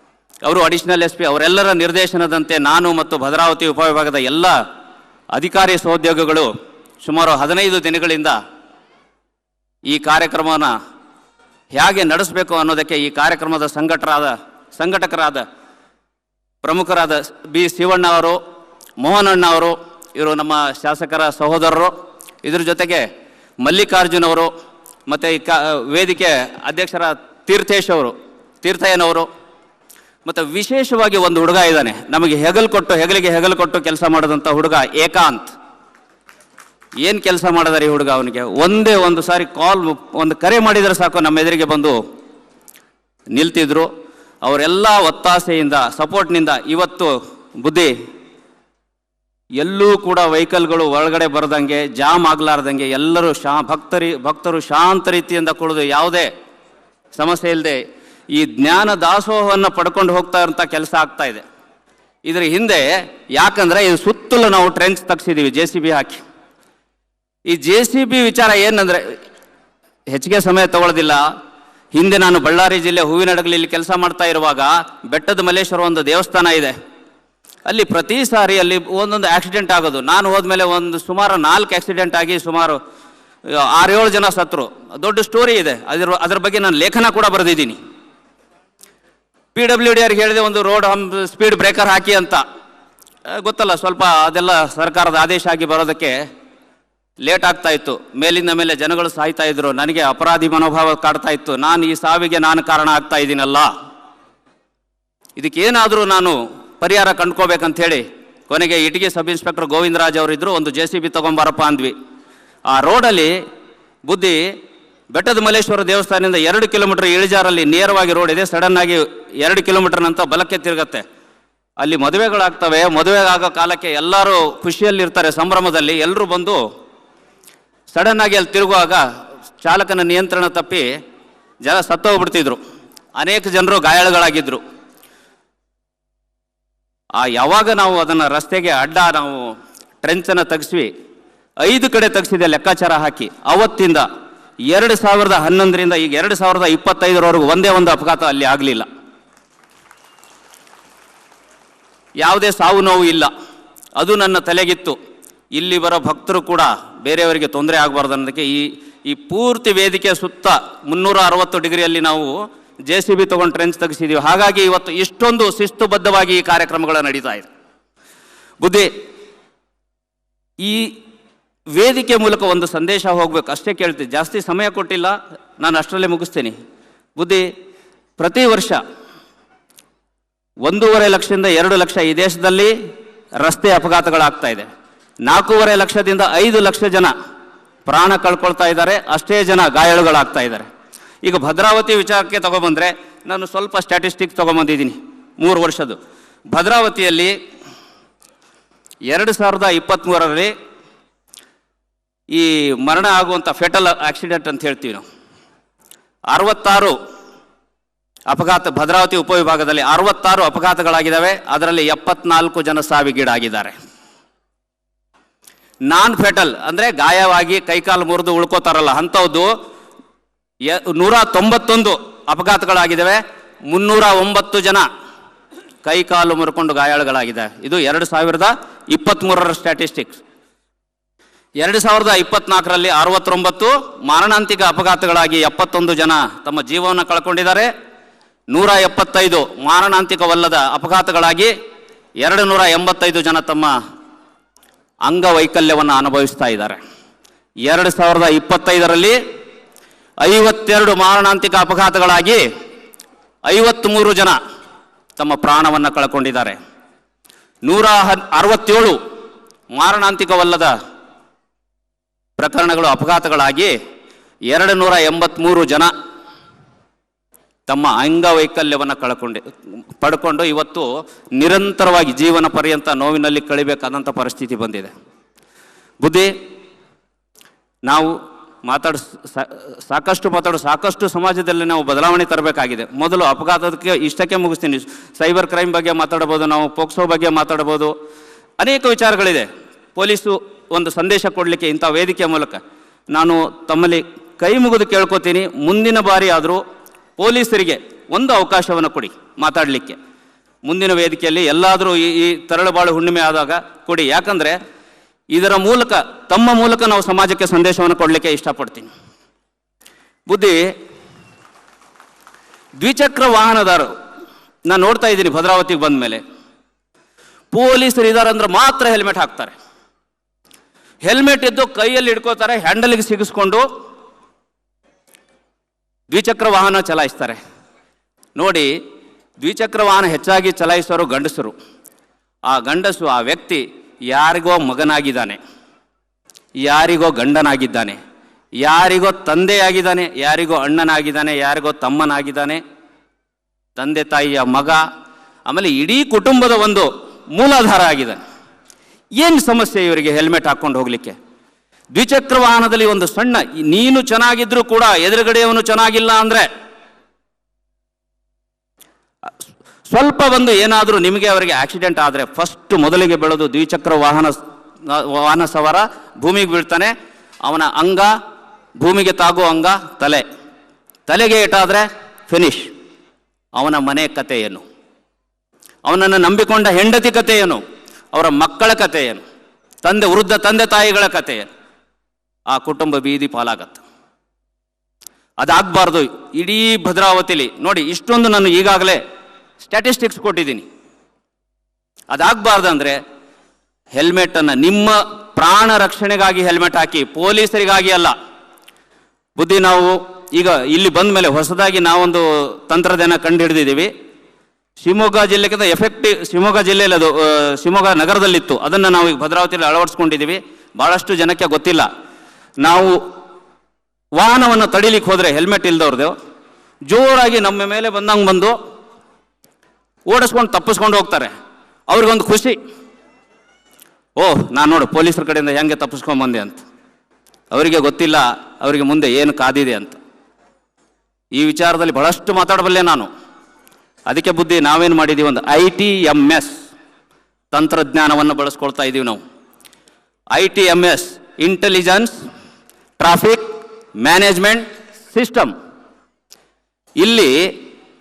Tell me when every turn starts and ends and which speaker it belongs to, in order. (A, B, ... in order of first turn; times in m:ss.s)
0:00.4-0:04.6 A
0:05.3-0:06.5 A
0:07.0-0:08.4 A
0:09.9-0:10.7 A
0:11.7-0:15.4 A
0:16.6-0:18.4 A
0:19.0-0:21.9 A
0:22.4-0:23.1 A
0:23.6-0:24.5 A
0:25.1-0:29.3 A
0:30.2-0:35.6 A
0:37.0-0:42.0 A
0:43.3-0:43.9 A
0:44.4-0:47.9 A
0:49.6-0:56.3 A
0:57.2-1:01.4 A
1:02.2-1:06.2 A
1:07.5-1:09.1 A
1:10.1-1:11.2 A
1:11.9-1:16.7 A
1:17.7-1:22.8 A
1:23.5-1:27.8 A
1:29.5-1:32.4 A
1:33.3-1:36.2 A
1:37.2-1:43.7 A
1:45.4-1:51.9 A
1:52.7-1:53.4 A
1:54.0-1:54.4 A
1:55.1-2:01.0 A
2:01.8-2:06.6 A
2:07.9-2:09.0 A
2:09.6-2:10.9 A
2:11.6-2:12.6 A
2:13.2-2:14.6 A
2:17.2-2:20.9 A
2:21.6-2:24.0 A
2:24.7-2:28.8 A
2:32.2-2:33.3 A
2:34.0-2:35.0 A
2:35.5-2:47.5 A
2:48.6-2:48.9 A
2:50.6-2:50.9 A
2:51.7-2:56.5 A
2:57.2-2:57.5 A
2:58.2-2:58.8 A
3:00.6-3:02.7 A
3:03.4-3:04.7 A
3:05.2-3:07.1 A
3:07.9-3:10.7 A
3:11.2-3:16.0 A
3:16.5-3:17.3 A
3:19.1-3:20.5 A
3:22.3-3:25.0 A
3:26.3-3:27.0 A
3:28.3-3:33.7 A
3:35.9-3:39.5 A
3:40.6-3:44.8 A
3:45.8-3:50.2 A
3:51.6-3:57.7 A
3:58.5-4:01.5 A
4:02.2-4:03.7 A
4:05.0-4:06.8 A
4:07.6-4:09.2 A
4:10.2-4:12.4 A
4:13.5-4:14.4 A
4:15.2-4:16.6 A
4:17.6-4:19.0 A
4:19.7-4:20.7 A
4:22.4-4:23.7 A
4:24.5-4:25.9 A
4:27.7-4:29.4 A
4:30.0-4:34.9 A
4:36.0-4:36.3 A
4:37.9-4:47.9 A
4:48.6-4:52.6 A
4:53.1-4:56.6 A
4:57.2-5:00.0 A
5:00.6-5:04.6 A
5:05.3-5:08.9 A
5:10.3-5:10.6 A
5:12.8-5:13.9 A
5:14.7-5:16.2 A
5:17.5-5:19.5 A
5:21.0-5:23.6 A
5:26.1-5:27.4 A
5:28.4-5:28.7 A
5:29.4-5:31.5 A
5:32.5-5:35.4 A
5:36.6-5:38.0 A
5:38.6-5:42.6 A
5:43.8-5:44.8 A
5:45.5-5:48.2 A
5:49.2-5:51.2 A
5:52.0-5:56.5 A
5:59.9-6:06.9 A
6:07.4-6:08.1 A
6:08.8-6:10.2 A
6:11.1-6:12.7 A
6:13.6-6:14.6 A
6:15.9-6:17.6 A
6:18.1-6:19.2 A
6:19.8-6:21.5 A
6:22.5-6:23.8 A
6:25.4-6:29.0 A
6:29.6-6:30.6 A
6:32.1-6:33.0 A
6:33.9-6:38.1 A
6:39.4-6:43.9 A
6:44.8-6:51.9 A
6:52.6-6:53.0 A
6:54.2-6:56.1 A
6:56.9-6:58.5 A
7:00.1-7:01.3 A
7:01.9-7:02.6 A
7:04.2-7:06.6 A
7:07.5-7:10.0 A
7:11.3-7:13.1 A
7:14.1-7:16.6 A
7:17.5-7:19.2 A
7:20.3-7:22.2 A
7:23.0-7:23.5 A
7:24.0-7:25.5 A
7:27.0-7:27.5 A